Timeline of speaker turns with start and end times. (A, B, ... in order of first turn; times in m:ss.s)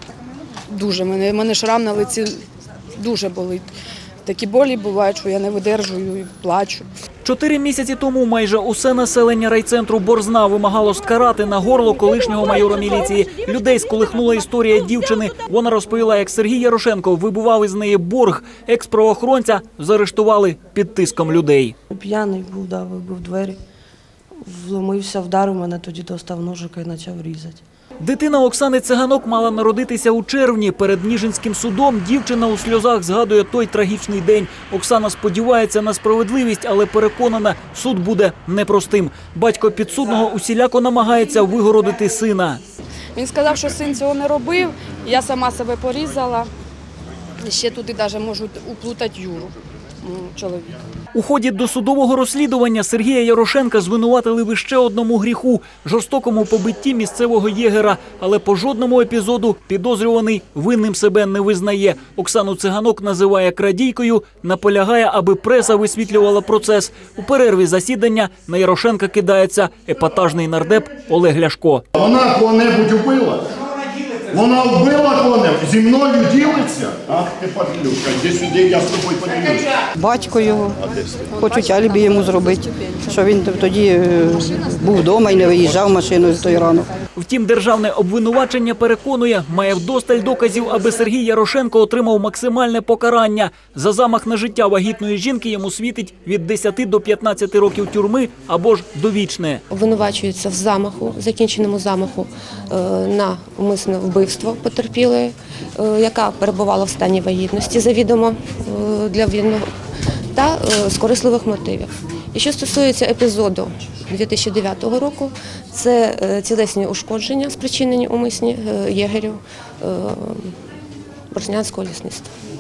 0:00.7-0:02.4 A
0:03.0-0:03.7 A
0:04.3-0:06.9 A
0:07.2-0:21.7 B
0:21.9-0:23.6 C
0:24.4-0:27.6 C
0:28.0-0:42.6 B
0:43.2-0:46.5 A
0:47.4-0:50.7 A
0:51.1-1:11.8 B
1:12.0-1:13.5 D
1:14.3-1:19.8 D
1:20.0-1:20.8 E
1:21.4-1:26.9 E
1:27.2-1:39.6 B
1:39.7-1:49.7 F
1:50.3-2:00.6 F
2:01.3-2:02.3 F